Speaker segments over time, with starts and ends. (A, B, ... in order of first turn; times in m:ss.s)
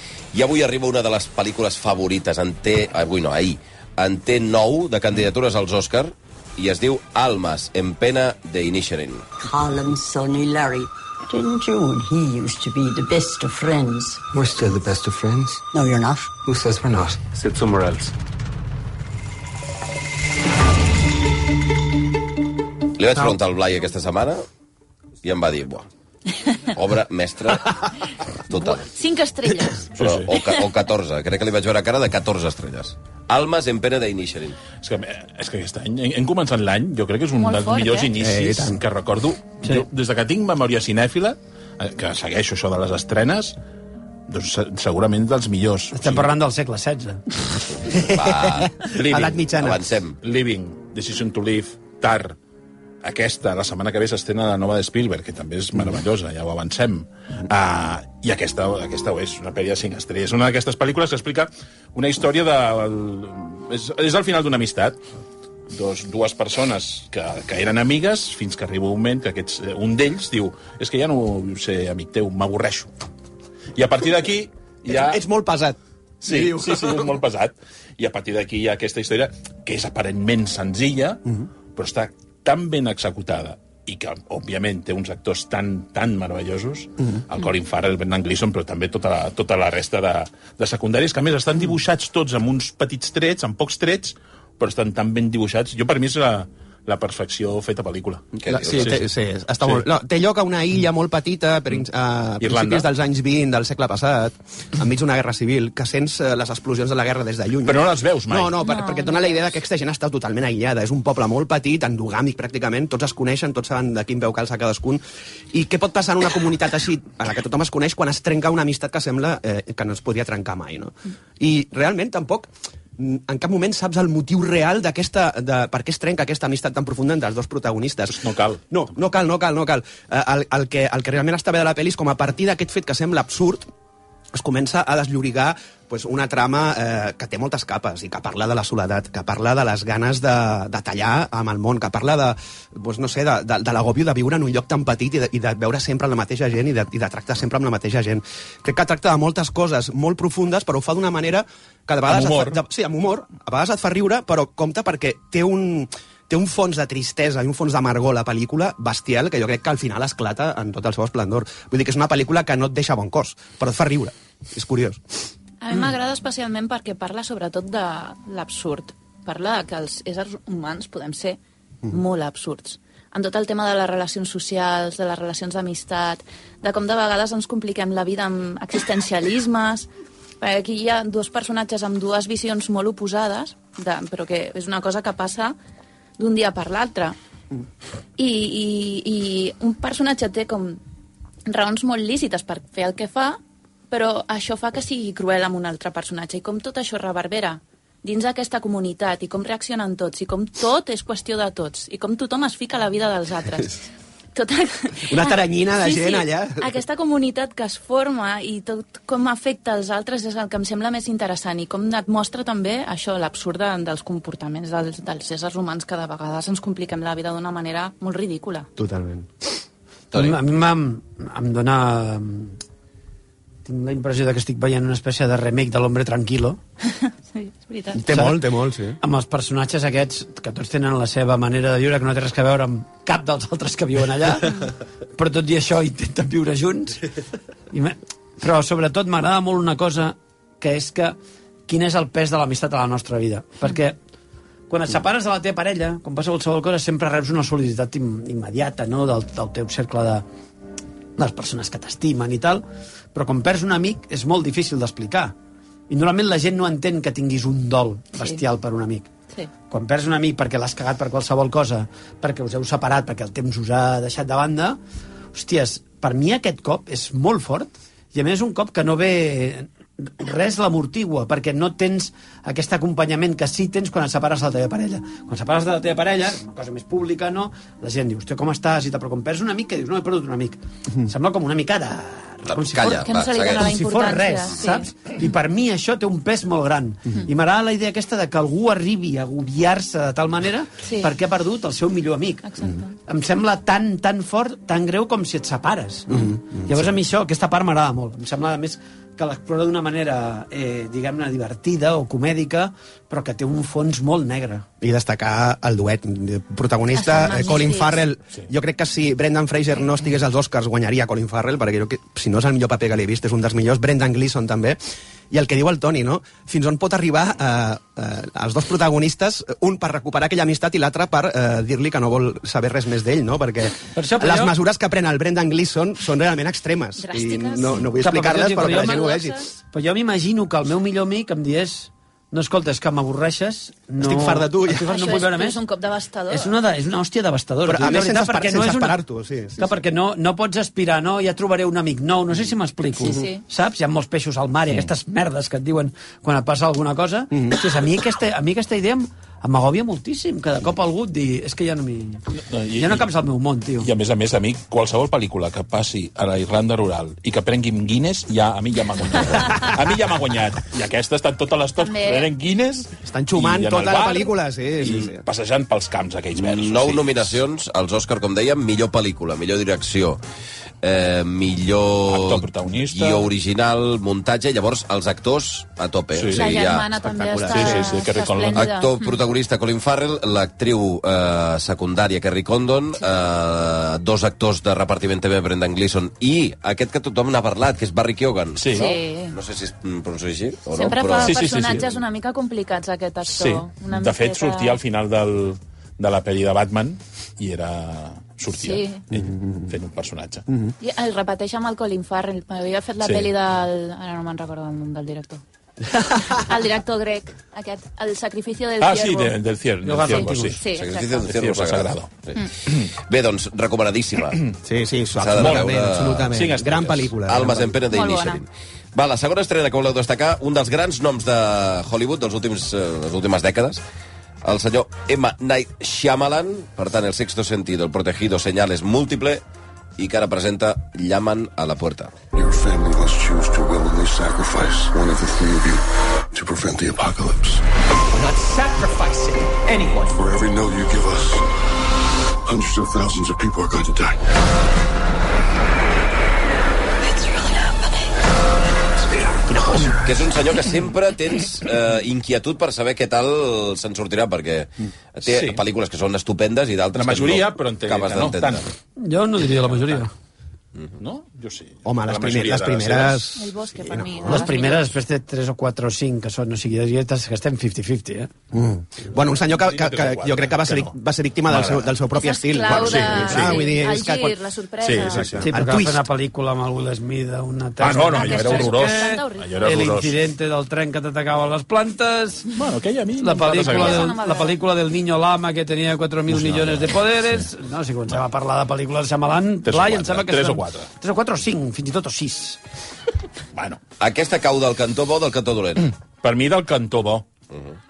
0:00.3-0:09.3 A
0:09.4-0:14.2 B
0:14.3-0:15.7 C
0:15.7-0:16.3 B
0:16.4-0:18.1 C
0:23.0-0:24.4 A
0:25.2-0:25.9 A
0:26.7-0:27.9 A
0:28.5-0:28.9 A
0:28.5-0:29.9 D
0:30.0-0:30.3 E
0:30.0-0:34.6 A
0:34.8-0:43.6 E
0:37.4-0:38.1 D
0:38.2-0:38.8 F
0:44.3-0:46.3 E
0:45.9-0:47.2 G
0:47.8-0:48.4 G
0:48.0-0:48.9 A
0:48.9-0:49.5 E
0:49.0-0:49.8 F
0:49.5-0:50.2 A
0:50.2-0:52.4 E
0:53.0-1:05.0 E
1:05.7-1:12.9 E
1:13.7-1:15.2 E
1:14.8-1:17.0 F
1:16.2-1:21.2 E
1:21.7-1:39.0 E
1:38.4-1:39.0 A
1:38.4-2:13.7 F
1:42.4-1:42.9 E
1:47.6-1:48.6 E
1:48.6-1:49.6 D
2:08.1-2:08.8 E
2:14.3-2:45.0 F
2:32.0-2:32.6 E
2:45.6-2:59.9 D
3:00.4-3:05.5 D
3:06.2-3:07.2 D
3:08.2-3:10.8 D
3:11.4-3:13.4 D
3:13.9-3:38.7 D
3:25.1-3:26.7 F
3:38.8-3:39.3 F
3:40.1-3:40.4 A
3:40.1-3:42.6 G
3:43.6-3:46.6 G
3:46.9-3:48.0 D
3:47.9-3:49.0 F
3:48.1-3:48.4 G
3:49.0-3:57.0 G
3:57.7-4:01.2 G
4:01.7-4:04.0 G
4:04.7-4:10.2 G
4:11.2-4:15.3 G
4:15.9-4:19.1 G
4:18.1-4:18.4 D
4:19.7-4:24.8 G
4:25.3-4:52.5 G
4:42.5-4:43.6 A
4:43.0-4:44.9 D
4:50.8-4:51.1 D
4:52.4-4:52.9 D
4:53.0-5:04.6 G
4:56.1-4:56.8 F
5:04.8-5:14.8 F
5:06.9-5:08.0 D
5:15.3-5:29.4 F
5:23.9-5:24.5 G
5:27.0-5:29.5 D
5:28.0-5:29.0 G
5:29.7-5:35.6 G
5:34.0-5:34.9 F
5:34.8-5:36.5 D
5:36.3-5:39.0 G
5:37.6-5:39.6 F
5:39.6-5:52.2 G
5:43.0-5:43.4 D
5:52.4-5:53.1 E
5:52.8-5:53.9 G
5:53.8-6:07.4 E
6:01.8-6:02.3 D
6:03.0-6:05.2 F
6:06.4-6:10.2 A
6:10.8-6:16.9 A
6:12.1-6:13.3 E
6:16.1-6:16.6 E
6:16.3-6:19.2 D
6:17.0-6:18.0 F
6:17.5-6:18.7 E
6:18.6-6:31.4 A
6:28.6-6:29.0 E
6:28.7-6:29.4 D
6:30.7-6:34.8 D
6:31.1-6:31.9 E
6:33.3-6:40.4 E
6:38.5-6:39.0 D
6:40.8-6:45.4 D
6:43.0-6:43.3 E
6:46.0-6:49.4 D
6:48.8-6:50.6 E
6:49.8-6:50.6 G
6:50.1-6:51.3 D
6:50.7-6:54.4 A
6:51.3-6:52.1 E
6:54.6-6:57.8 F
6:55.2-6:56.3 A
6:55.4-6:55.7 E
6:56.3-6:57.1 E
6:57.2-7:03.8 A
6:57.9-6:58.4 D
7:04.4-7:09.4 A
7:10.0-7:12.1 A
7:12.3-7:17.6 H
7:20.0-7:21.5 H
7:22.4-7:24.2 H
7:30.0-7:38.6 A
7:35.2-7:35.6 E
7:36.9-7:38.7 E
7:39.0-7:40.1 G
7:39.7-7:40.0 E
7:41.0-7:43.2 E
7:41.8-7:44.4 F
7:43.4-7:44.9 D
7:44.2-7:48.3 G
7:48.5-7:54.4 F
7:49.4-7:50.9 E
7:51.5-7:51.9 E
7:52.1-7:55.3 D
7:52.7-7:53.7 E
7:54.8-7:55.5 E
7:55.0-7:56.0 F
7:55.4-8:02.5 G
7:57.8-8:00.1 E
7:58.0-7:59.6 D
8:02.5-8:04.2 E
8:03.2-8:12.6 G
8:03.5-8:04.6 D
8:06.3-8:07.4 E
8:09.6-8:10.9 E
8:13.5-8:13.8 E
8:14.0-8:15.9 A
8:16.2-8:17.3 E